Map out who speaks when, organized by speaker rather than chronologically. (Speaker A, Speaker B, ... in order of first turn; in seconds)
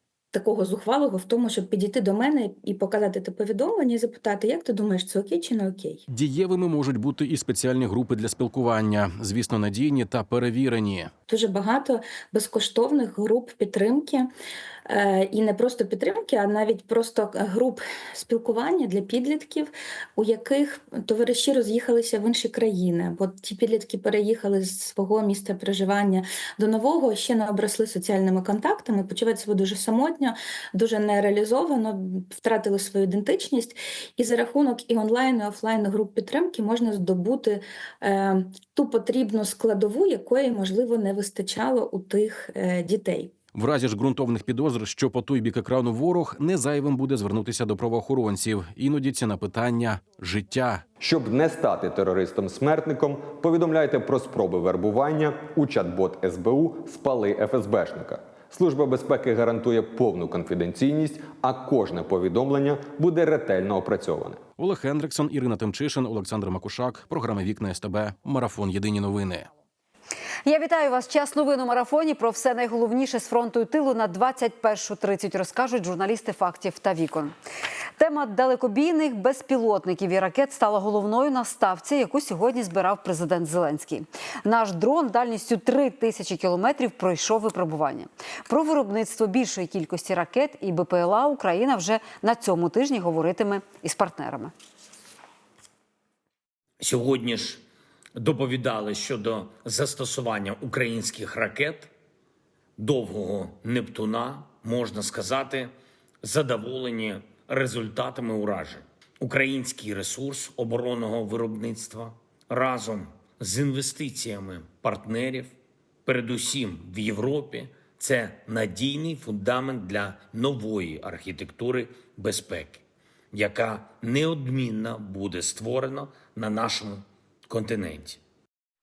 Speaker A: 0.3-6.0, 11.3-14.3, 14.9-43.3
Speaker B: 6.1-11.1, 43.5-50.8, 64.6-69.5
Speaker C: 51.0-64.4
Speaker D: 70.5-77.3, 78.0-94.5
Speaker E: 96.8-97.6, 98.2-101.9, 102.8-115.5, 116.0-128.2